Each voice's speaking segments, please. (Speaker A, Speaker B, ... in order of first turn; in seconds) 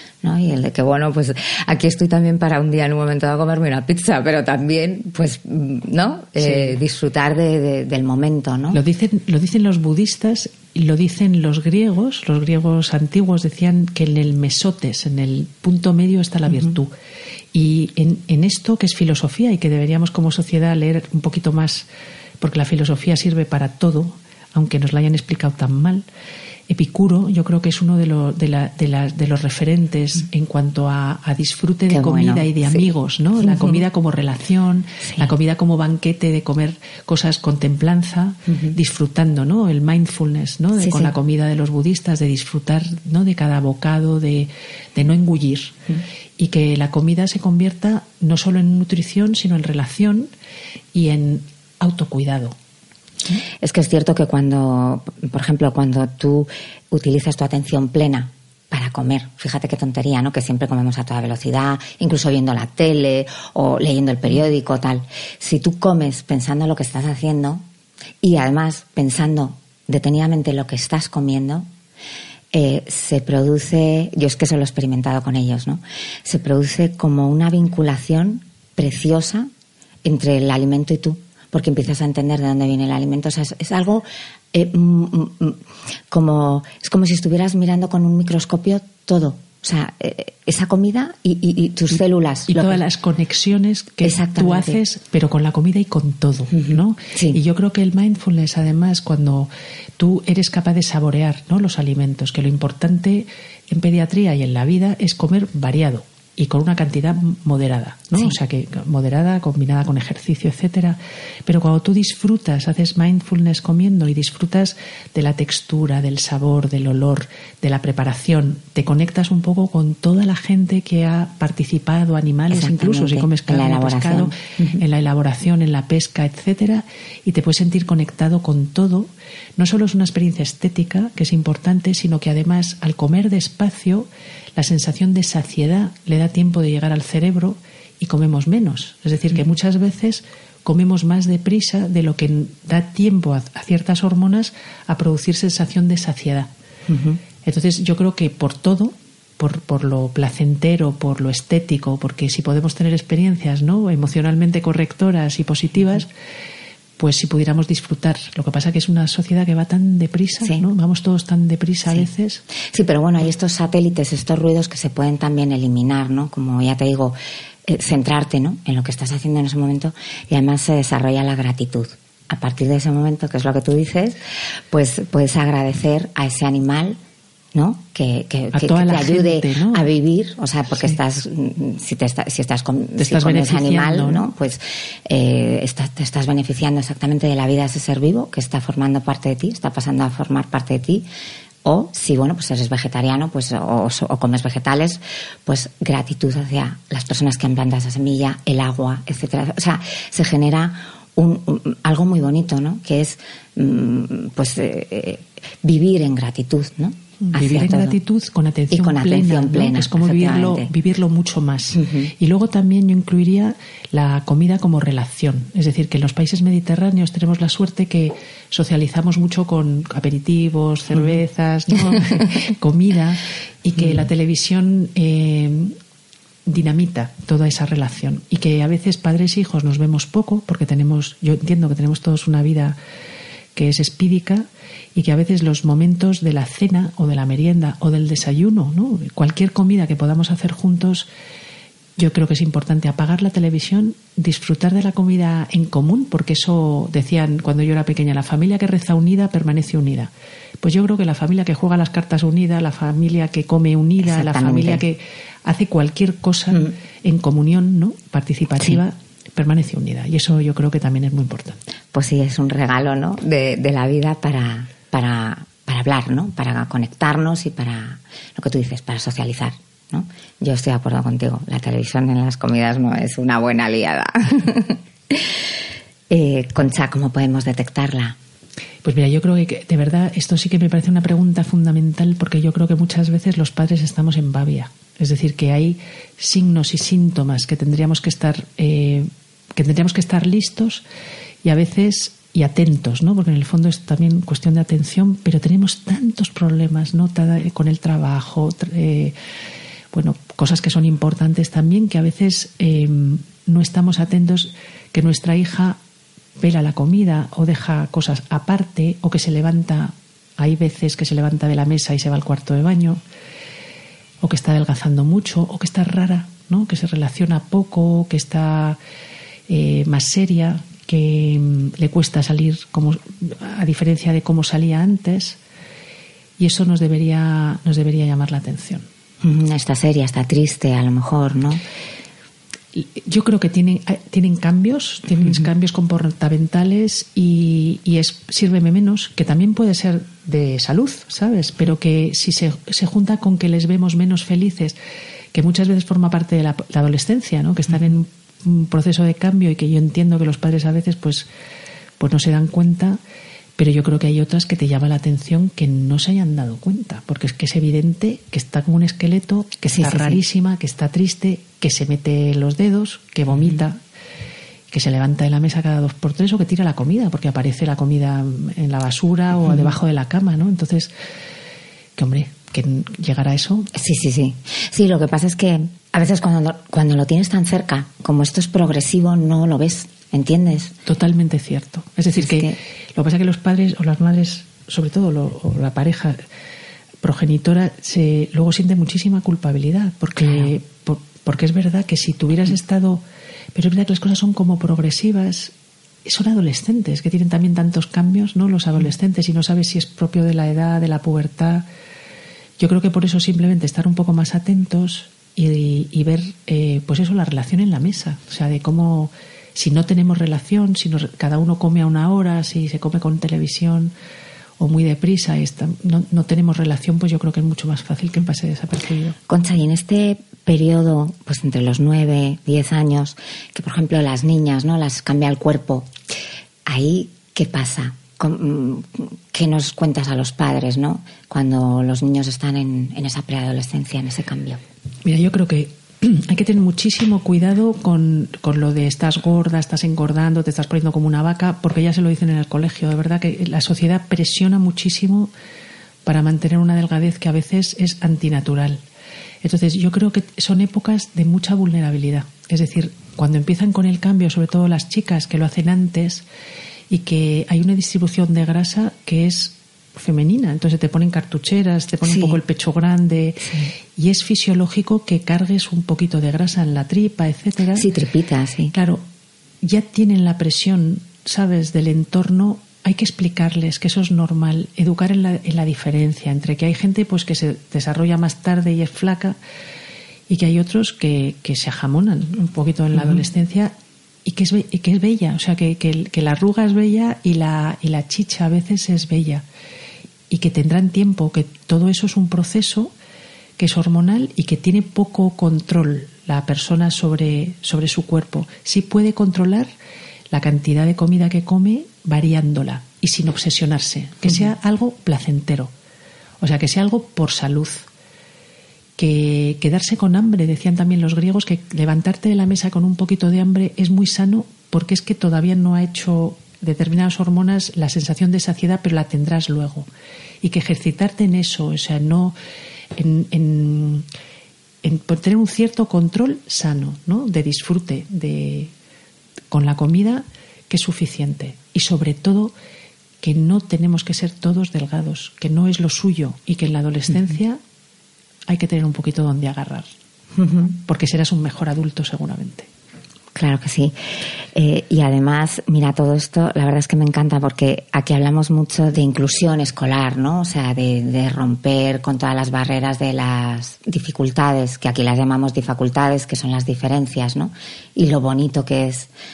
Speaker A: 0.2-8.8, 31.9-32.9, 33.4-33.8, 35.0-35.3, 40.8-41.1, 53.6-67.7, 68.2-71.7, 72.5-79.5, 80.0-92.8, 94.0-94.8, 96.5-97.4, 122.5-124.8, 146.9-147.2, 160.4-160.7, 162.6-174.2, 174.7-177.0, 177.5-191.1, 191.6-208.0, 208.7-210.7, 211.8-212.1, 254.0-254.8, 261.9-275.3, 276.1-278.2, 329.2-331.6, 359.7-360.2, 373.7-380.7, 382.2-382.6, 390.2-390.5, 419.3-425.9, 426.7-434.6, 462.0-462.4, 463.4-463.7, 467.7-468.7, 540.4-540.7, 543.3-559.1
Speaker B: 8.7-16.9, 17.5-21.9, 22.4-26.0, 26.7-45.8, 46.4-50.3, 50.9-52.5, 92.5-146.5, 147.4-156.1, 157.0-162.4, 178.5-179.8, 183.0-184.3, 207.2-225.7, 226.4-232.8, 233.5-241.1, 242.0-261.6, 278.8-290.8, 291.4-299.1, 299.9-305.8, 306.4-313.0, 314.2-318.8, 319.5-325.4, 326.4-328.9, 332.7-344.8, 345.3-351.3, 352.0-353.0, 353.6-363.8, 364.7-370.9, 372.0-373.7, 380.9-386.2, 387.0-393.0, 393.5-395.5, 396.0-401.6, 402.6-413.9, 414.6-419.1, 435.0-445.3, 446.0-448.8, 449.4-456.2, 456.9-467.9, 468.7-469.0, 469.6-479.4, 480.3-483.7, 484.2-489.4, 490.3-492.9, 493.6-499.7, 500.3-505.7, 506.4-507.9, 509.0-519.9, 520.4-522.3, 523.0-524.0, 524.8-528.7, 529.5-532.5, 533.2-537.6, 538.5-539.9, 540.6-542.7